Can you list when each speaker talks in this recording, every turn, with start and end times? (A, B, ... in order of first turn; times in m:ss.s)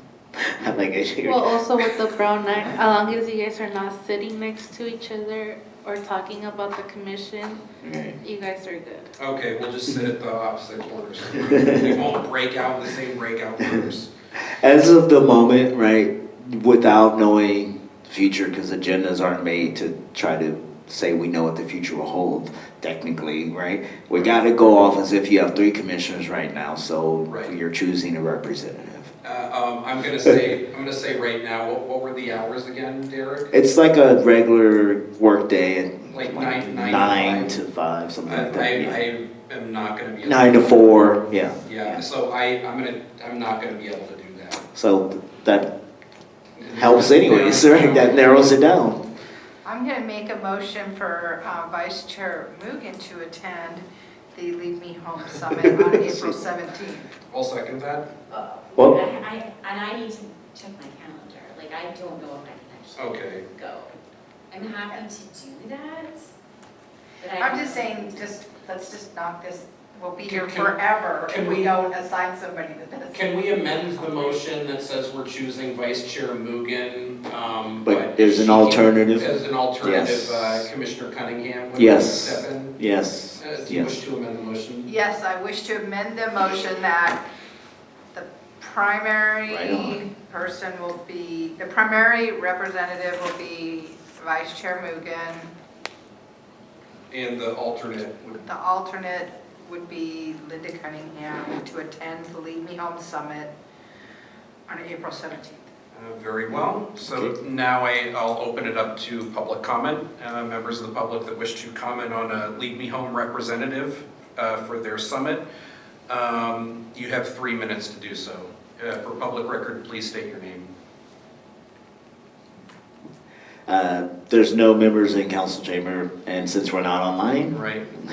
0:00.3-0:02.0 A
0:01.2-0:07.6 B
0:07.8-0:08.2 A
0:08.2-0:09.1 B
0:09.2-0:14.1 C
0:11.4-0:11.9 A
0:14.3-0:29.1 A
0:24.1-0:24.4 C
0:27.3-0:27.5 C
0:29.2-0:33.5 C
0:33.5-0:39.0 A
0:36.1-0:37.5 C
0:38.2-0:41.1 C
0:40.2-0:42.0 A
0:41.6-0:44.6 C
0:44.7-0:45.7 A
0:46.6-0:48.6 C
0:46.7-0:49.0 A
0:49.6-0:57.1 D
0:55.8-0:56.3 A
0:57.3-0:58.1 C
0:58.3-1:03.9 E
0:58.7-0:59.0 A
1:03.0-1:03.4 C
1:04.5-1:06.3 E
1:07.2-1:08.3 E
1:07.4-1:14.4 D
1:10.2-1:11.7 C
1:13.1-1:22.7 C
1:17.8-1:20.7 A
1:21.8-1:24.0 A
1:23.4-1:24.9 C
1:24.8-1:27.2 D
1:28.1-1:35.5 D
1:29.5-1:30.0 A
1:37.1-1:38.4 C
1:38.4-1:43.5 D
1:44.7-1:45.7 D
1:45.9-1:55.4 C
1:46.5-1:47.3 A
1:56.1-2:00.7 C
2:03.7-2:07.6 A
2:07.5-2:07.9 C